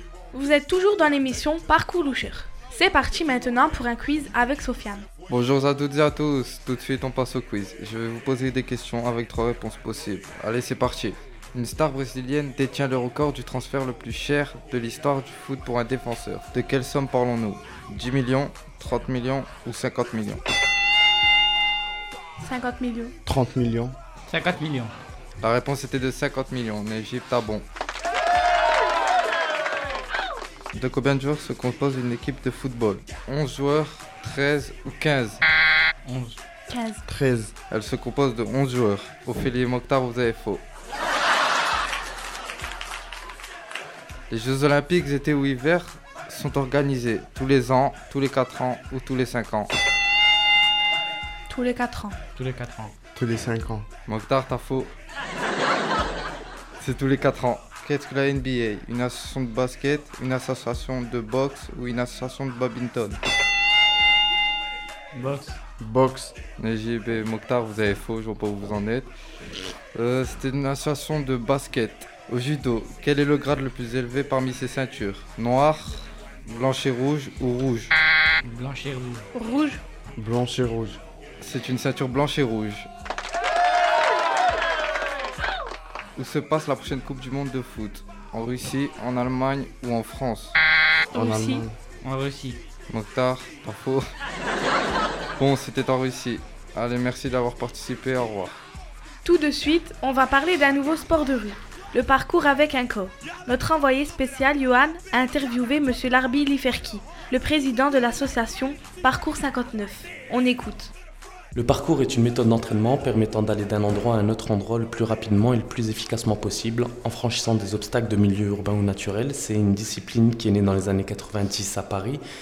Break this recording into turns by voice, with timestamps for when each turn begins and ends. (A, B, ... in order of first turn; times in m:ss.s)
0:00.3-0:05.1 A
0:05.3-0:20.4 B
0:22.4-0:23.2 A
0:23.2-0:23.9 C
0:24.3-0:24.9 D
0:25.4-0:27.6 B
0:30.7-0:35.4 B
0:36.0-0:36.4 D
0:36.7-0:37.0 A
0:37.1-0:37.5 C
0:37.7-0:40.6 B
0:44.3-0:49.7 B
0:51.5-0:52.2 A
0:52.4-0:52.9 D
0:53.1-0:53.9 C
0:54.1-0:54.9 B
0:56.8-1:03.2 B
1:05.1-1:05.6 D
1:05.8-1:06.4 C
1:06.6-1:09.1 B
1:09.9-1:17.9 B
1:18.4-1:19.2 D
1:19.4-1:19.8 A
1:20.1-1:21.0 C
1:21.4-1:22.9 B
1:26.2-1:30.6 B
1:31.1-1:31.6 A
1:31.1-1:31.8 C
1:32.0-1:32.6 D
1:32.9-1:34.1 B
1:35.4-1:38.6 B
1:39.2-1:50.9 A
1:51.5-2:02.2 E